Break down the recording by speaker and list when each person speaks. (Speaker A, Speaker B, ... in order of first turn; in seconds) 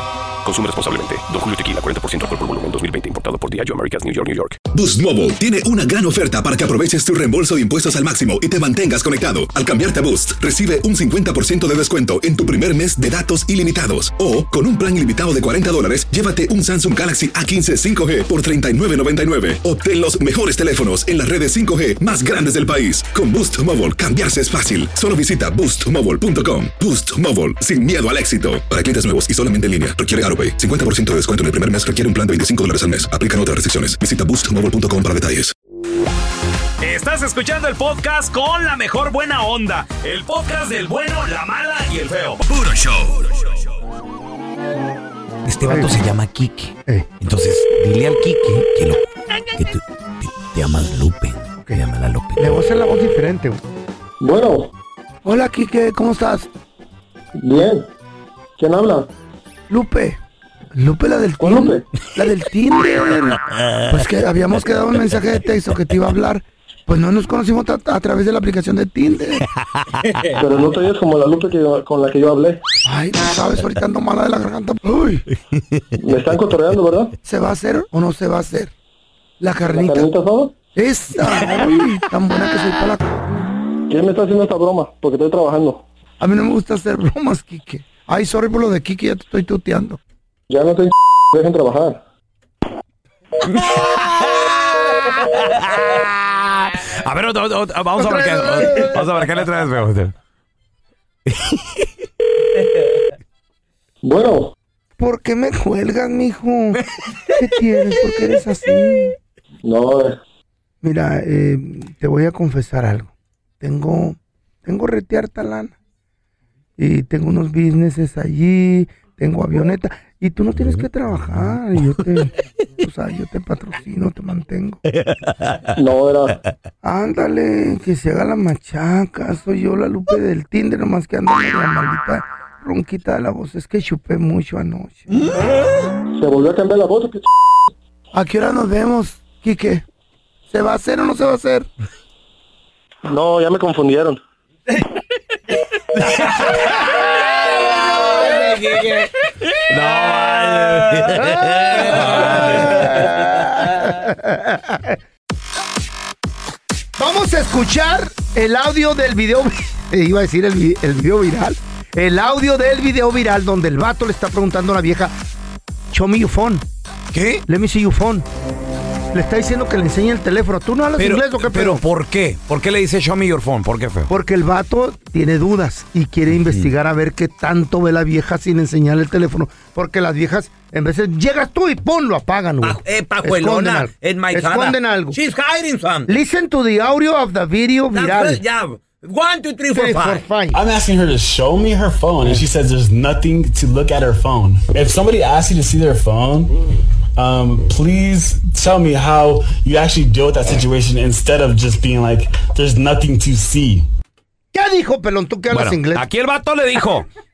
Speaker A: 0.4-4.6
Speaker B: 4.7-35.5
Speaker C: 36.8-43.4, 45.5-52.6, 69.6-70.2, 93.5-100.1, 101.3-101.8, 124.9-125.6, 146.1-149.1, 149.7-153.8, 167.1-167.4, 171.0-174.1, 176.3-176.7, 182.6-186.1, 187.9-190.2, 205.5-207.1
Speaker D: 45.6-45.9, 52.4-53.6, 55.2-56.5, 59.7-60.2, 60.7-69.4, 72.8-75.2, 77.2-78.7, 79.4-80.1, 80.7-83.5, 86.2-90.0, 98.0-99.0, 105.0-106.8, 107.3-109.1, 110.8-113.1, 113.6-115.7, 116.8-124.8, 126.8-135.1, 138.1-139.8, 140.5-141.7, 147.5-148.5, 151.1-154.9, 157.0-165.1, 165.9-166.6, 167.5-168.2, 169.1-171.8, 174.1-185.2, 186.1-188.4, 189.7-190.6, 204.5-206.1
Speaker E: 54.2-54.7, 57.4-57.9, 58.6-59.1, 61.4-61.9, 70.4-72.6, 76.0-77.1, 79.7-80.5, 83.9-85.8, 90.5-92.0, 104.0-104.5, 109.6-110.2, 125.8-126.4, 136.1-137.2, 143.1-144.2
Speaker F: 190.5-196.6, 197.2-203.8